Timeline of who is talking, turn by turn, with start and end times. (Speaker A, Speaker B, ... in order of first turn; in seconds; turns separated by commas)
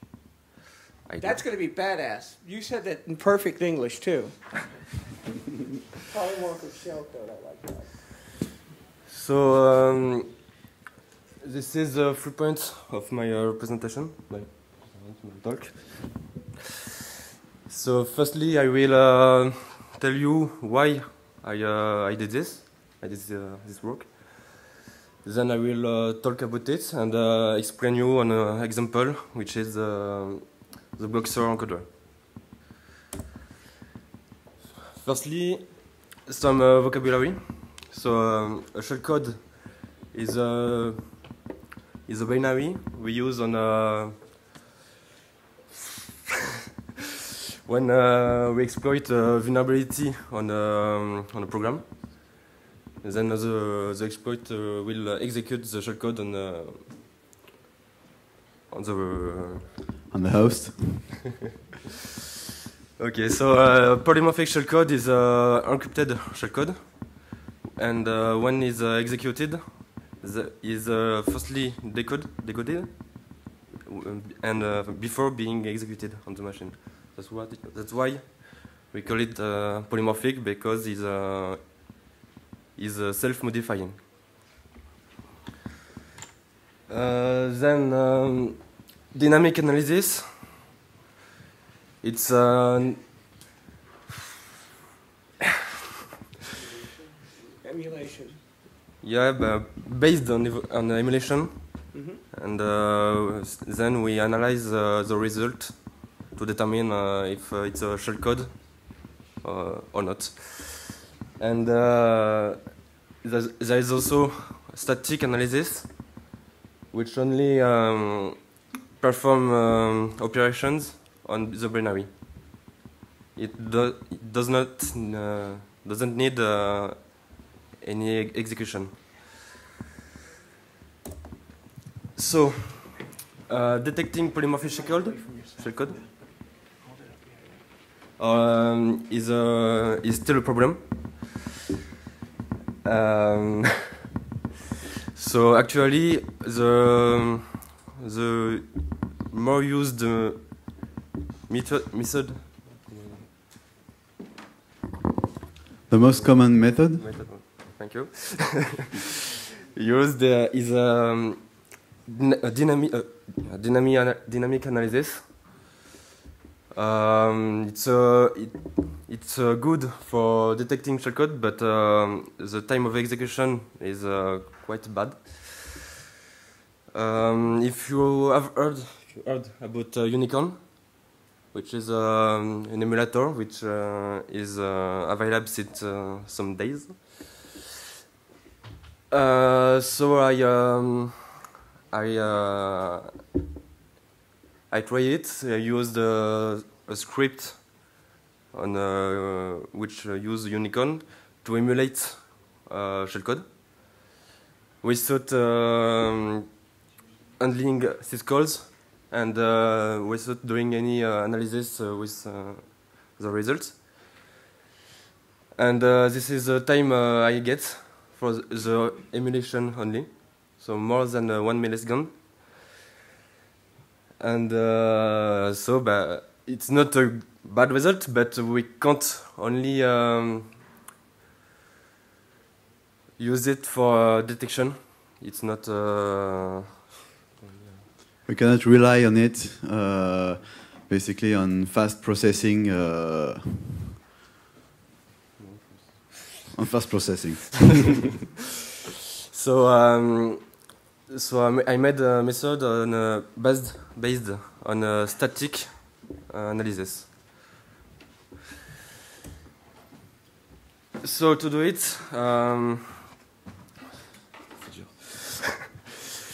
Speaker A: 1.1-1.4, Speaker B: 1.2-4.6, Speaker B: 6.0-7.9, Speaker A: 9.1-10.6, Speaker A: 11.4-16.3, Speaker A: 17.7-31.9, Speaker A: 35.0-41.3, Speaker A: 42.0-44.4, Speaker A: 47.6-52.4, Speaker A: 53.0-56.9, Speaker A: 58.7-59.6, Speaker C: 60.1-61.3, Speaker A: 63.0-81.8, Speaker A: 82.8-84.0, Speaker A: 86.9-90.4, Speaker A: 92.0-93.2, Speaker B: 97.6-98.4, Speaker A: 99.0-116.2, Speaker B: 101.9-102.2, Speaker A: 116.9-122.7, Speaker A: 123.3-129.2, Speaker A: 132.1-136.0, Speaker B: 134.6-136.9, Speaker A: 138.2-141.4, Speaker A: 142.8-143.8, Speaker A: 145.1-150.9, Speaker A: 151.5-153.3, Speaker C: 155.9-157.1, Speaker A: 156.1-159.0, Speaker A: 159.7-165.4, Speaker A: 166.7-175.9, Speaker A: 176.9-181.0, Speaker A: 181.5-187.3, Speaker A: 189.1-193.1, Speaker A: 194.7-197.9, Speaker A: 198.5-203.5, Speaker A: 204.8-206.5, Speaker A: 207.4-213.8, Speaker A: 215.5-222.3, Speaker A: 224.2-230.6, Speaker A: 233.2-236.7, Speaker A: 237.4-237.8, Speaker C: 238.3-243.7, Speaker A: 245.4-246.3, Speaker C: 246.5-248.1, Speaker A: 249.3-257.1, Speaker A: 261.0-263.1, Speaker A: 264.6-265.8